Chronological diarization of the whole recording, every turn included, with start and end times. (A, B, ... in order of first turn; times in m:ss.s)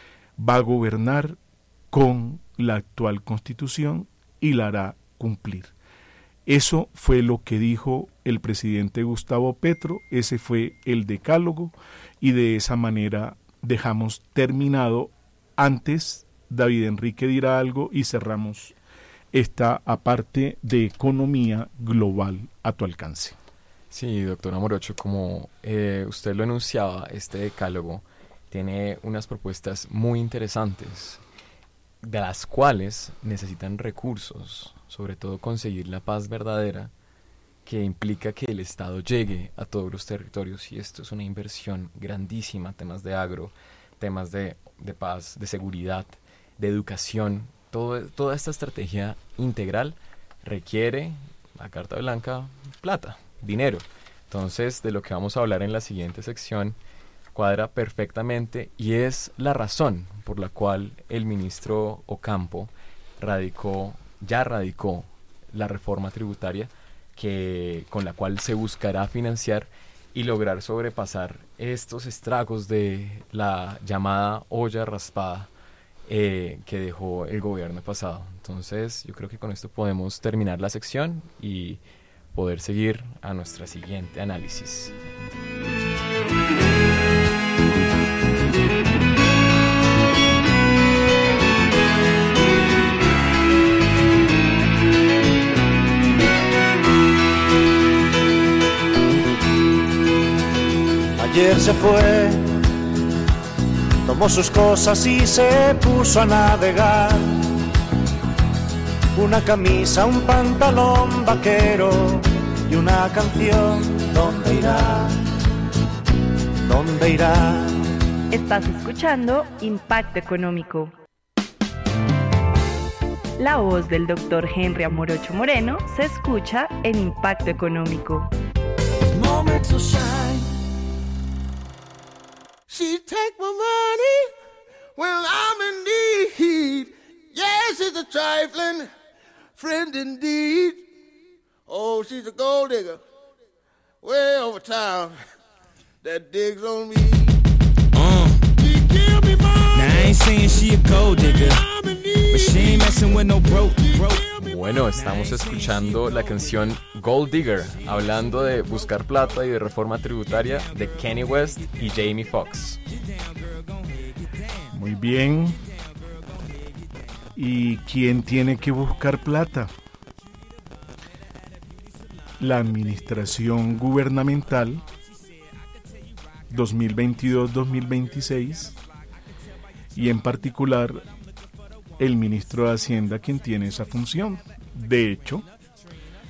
0:00.4-0:01.4 A
0:01.9-0:05.7 A
0:06.4-0:18.8 A
0:19.3-0:23.4 A
0:23.9-0:31.2 B
0:32.0-0:36.9 B
0:37.6-0:56.8 B
0:57.3-1:15.5 B
1:16.1-1:21.8 B
1:22.3-1:24.9 B
1:41.2-1:42.5 C
1:44.0-1:47.5 C
1:49.1-1:55.2 C
1:56.6-1:57.8 C
1:58.3-2:00.9 D
2:03.4-2:08.3 D
2:09.1-2:10.4 E
2:12.7-2:14.3 E
2:15.0-2:18.9 E
2:19.6-2:20.8 E
2:21.7-2:23.0 E
2:24.0-2:25.2 E
2:26.0-2:27.4 E
2:27.9-2:28.4 F
2:28.5-2:30.0 E
2:29.7-2:31.6 F
2:31.7-2:32.5 E
2:32.3-2:34.3 F
2:34.4-2:42.8 B
2:43.1-2:44.0 F
2:44.7-2:45.6 A
2:47.4-2:49.7 A
2:52.4-2:54.8 A
2:56.5-2:58.8 A
2:59.9-3:01.0 A
3:02.0-3:05.4 A